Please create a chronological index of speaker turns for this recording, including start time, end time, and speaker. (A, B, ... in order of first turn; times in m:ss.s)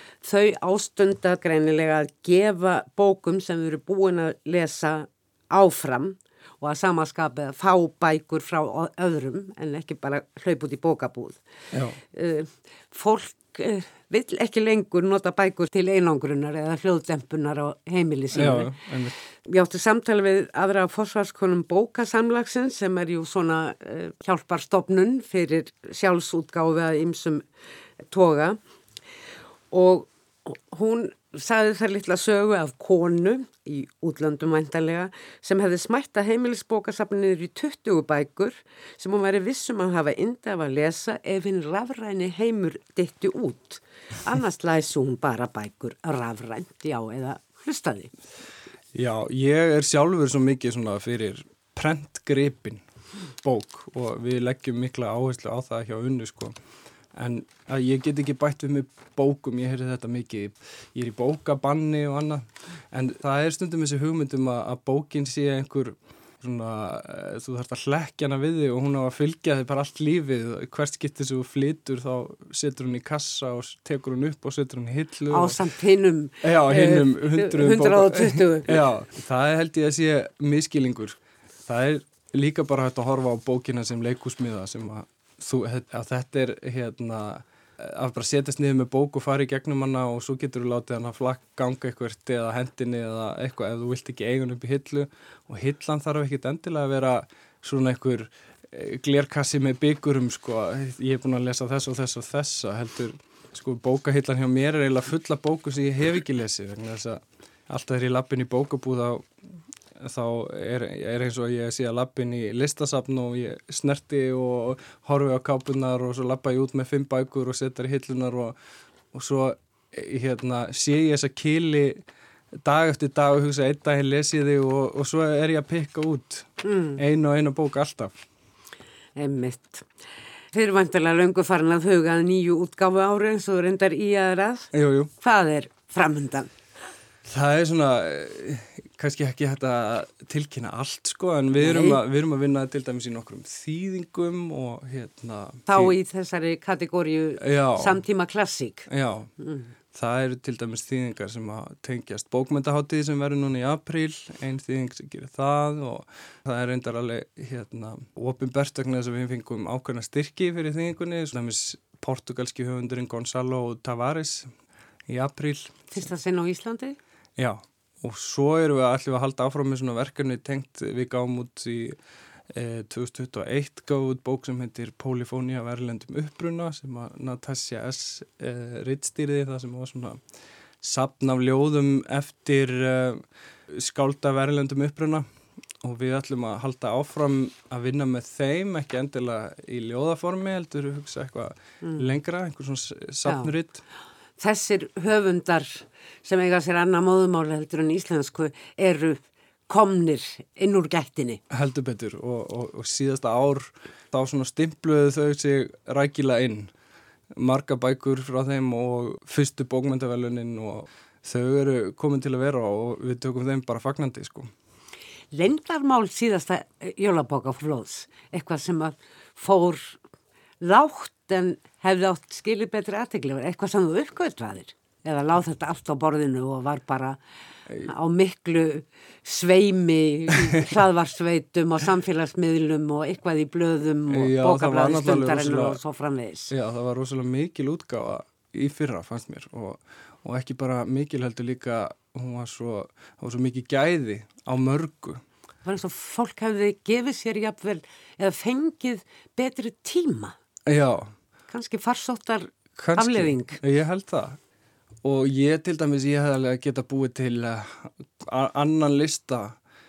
0:00.2-0:11.4 A
0:11.7-0:12.0 B
0:12.1-0:18.7 A
0:18.3-0:19.1 B
0:19.4-0:27.4 A
0:28.0-0:28.6 A
0:29.7-0:48.1 A
0:48.9-0:52.8 B
0:53.4-0:56.5 B
0:57.1-1:15.6 B
1:15.3-1:18.8 A
1:16.4-1:49.3 B
1:50.0-1:58.6 B
1:59.1-2:02.0 B
2:02.6-2:08.1 B
2:06.6-2:07.0 A
2:09.2-2:09.9 A
2:10.5-2:16.5 A
2:14.7-2:15.1 B
2:17.2-2:26.0 B
2:21.6-2:22.0 A
2:25.7-2:28.9 A
2:27.4-2:28.0 B
2:28.9-2:29.3 B
2:29.4-2:29.7 A
2:29.9-2:44.5 B
2:45.1-2:45.9 B
2:45.9-2:47.0 A
2:47.4-2:52.0 B
2:52.5-3:00.2 B
3:00.8-3:05.2 B
3:05.8-3:13.8 B
3:13.2-3:13.5 A
3:14.4-3:21.4 A
3:21.5-3:26.7 B
3:27.3-3:34.5 B
3:35.3-3:40.0 A
3:40.6-3:47.2 A
3:47.8-3:56.5 A
3:54.1-3:55.8 B
3:56.5-4:05.2 B
4:05.6-4:10.4 A
4:10.6-4:11.1 B
4:11.5-4:13.6 A
4:12.8-4:14.4 B
4:15.0-4:19.6 B